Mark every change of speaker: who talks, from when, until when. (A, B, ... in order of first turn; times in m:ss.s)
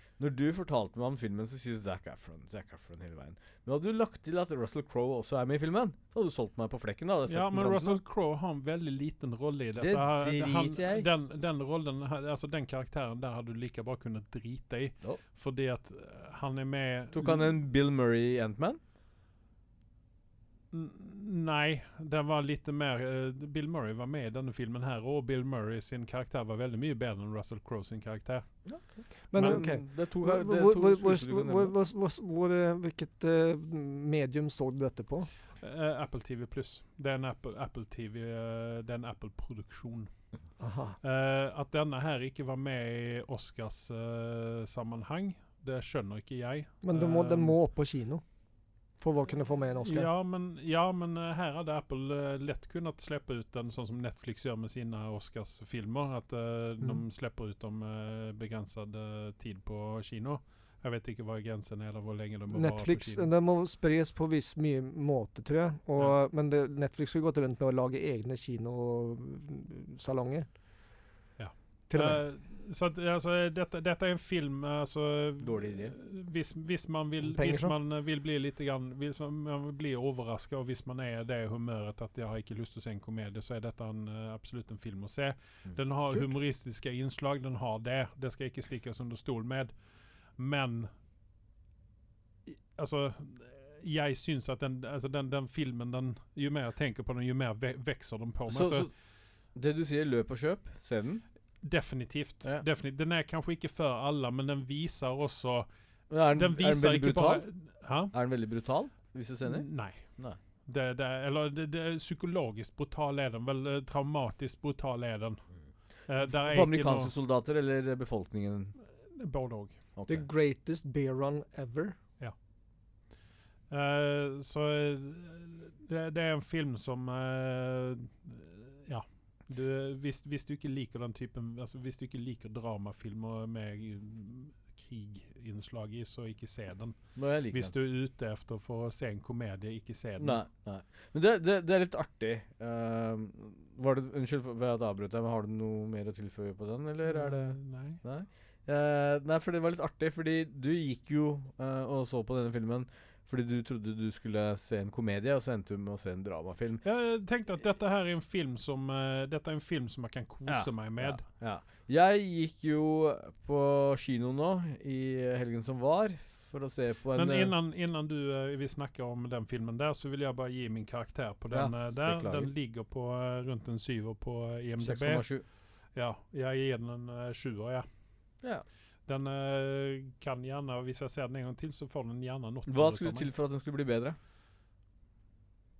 0:00.2-0:08.0 A
0:07.3-0:17.5 B
0:09.8-0:11.1 A
0:17.1-0:18.8 A
0:20.7-0:28.5 B
0:28.7-0:31.7 A
0:29.3-0:35.3 C
0:35.6-0:40.1 B
0:40.6-0:41.0 C
0:41.0-0:47.6 B
0:46.8-0:48.2 C
0:49.0-0:50.1 C
0:49.8-1:03.3 B
1:02.5-1:10.5 C
1:11.4-1:29.7 B
1:11.9-1:12.2 C
1:15.4-1:16.0 A
1:17.2-1:17.7 C
1:30.4-1:30.9 B
1:32.5-1:38.9 B
1:38.5-1:38.9 A
1:39.6-1:41.2 A
1:41.6-1:45.7 B
1:46.1-1:47.4 A
1:46.3-1:48.1 B
1:48.1-1:50.4 A
1:49.4-1:50.0 B
1:50.7-1:55.4 B
1:56.1-1:57.1 B
1:56.3-1:58.8 A
1:59.1-1:59.8 B
2:00.0-2:00.3 A
2:00.1-2:02.0 C
2:03.7-2:17.0 B
2:17.2-2:17.7 A
2:17.5-2:20.4 B
2:20.2-2:36.8 A
2:27.0-2:28.0 B
2:36.8-2:41.2 B
2:40.5-2:47.5 A
2:47.2-2:55.3 B
2:51.5-2:52.5 A
2:54.8-2:55.4 A
2:56.0-2:57.9 B
2:59.1-3:03.3 B
3:02.7-3:04.2 A